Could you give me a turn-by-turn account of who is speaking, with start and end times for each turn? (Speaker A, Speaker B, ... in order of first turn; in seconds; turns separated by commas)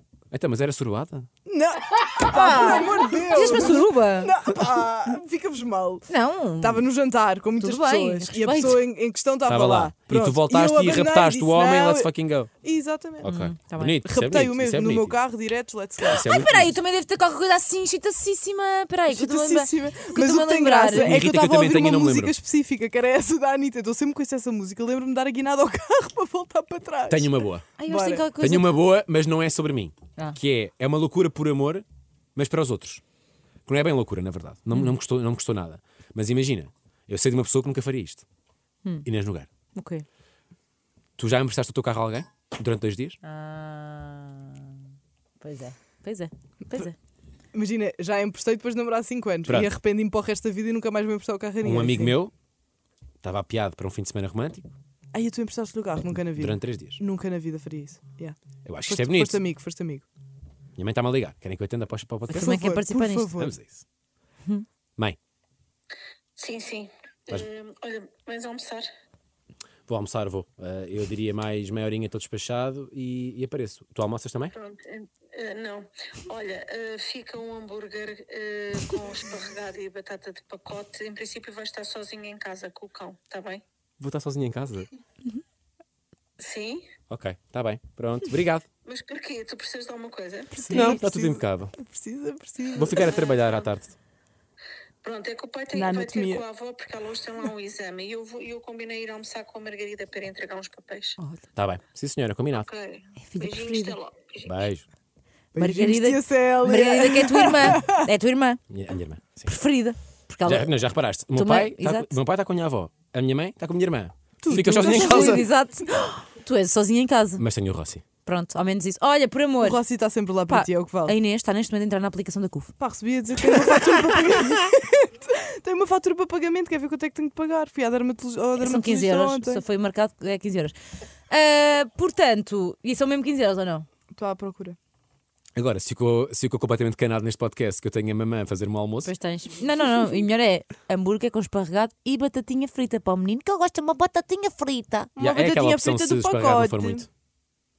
Speaker A: 0.3-1.3, Speaker B: 1.4-6.1, Speaker C: 2.2-4.3, Speaker C: 6.1-6.8, Speaker B: 6.6-12.1, Speaker C: 7.6-8.8, Speaker A: 9.4-12.5, Speaker B: 12.6-13.3, Speaker C: 13.2-14.0, Speaker A: 13.2-15.2, Speaker B: 14.0-16.3, Speaker C: 16.0-21.2, Speaker A: 16.1-16.8, Speaker B: 19.1-28.2, Speaker A: 20.9-22.3, Speaker A: 27.1-27.7, Speaker C: 27.8-28.8, Speaker A: 28.4-31.8, Speaker A: 32.4-33.0, Speaker A: 33.7-38.2, Speaker A: 39.0-39.5, Speaker C: 39.7-40.0, Speaker A: 41.2-43.2, Speaker C: 43.2-44.8, Speaker C: 45.4-46.9, Speaker B: 47.5-52.2, Speaker A: 49.5-49.7, Speaker A: 51.6-52.3, Speaker A: 53.2-54.7, Speaker B: 55.1-60.0, Speaker A: 56.3-57.0, Speaker A: 58.6-59.4, Speaker A: 60.8-62.6, Speaker C: 62.3-63.4, Speaker B: 62.3-63.5, Speaker A: 63.4-63.8, Speaker D: 66.4-68.9, Speaker A: 69.9-74.5, Speaker D: 74.5-83.6, Speaker A: 84.0-84.9, Speaker D: 86.4-86.9, Speaker A: 87.1-88.7, Speaker D: 88.8-90.5, Speaker B: 90.5-93.2, Speaker A: 90.7-91.7, Speaker A: 92.7-94.0, Speaker D: 92.9-93.6, Speaker D: 95.0-101.2, Speaker B: 95.7-96.4, Speaker A: 101.5-102.7, Speaker D: 102.7-104.6, Speaker C: 103.3-104.0, Speaker A: 104.4-104.8, Speaker B: 105.5-108.1, Speaker C: 105.5-108.6, Speaker A: 108.7-109.5, Speaker C: 109.4-110.7, Speaker A: 110.4-115.5, Speaker C: 111.3-112.2, Speaker B: 114.4-115.5, Speaker C: 114.6-117.4, Speaker A: 117.4-118.0, Speaker C: 118.2-119.8, Speaker B: 119.6-121.1, Speaker C: 120.5-122.7, Speaker B: 122.8-129.6, Speaker C: 123.4-124.5, Speaker C: 128.6-130.7, Speaker C: 131.3-133.9, Speaker B: 134.1-134.8, Speaker A: 135.6-139.1, Speaker C: 139.0-145.1, Speaker B: 145.2-147.1, Speaker A: 145.2-147.1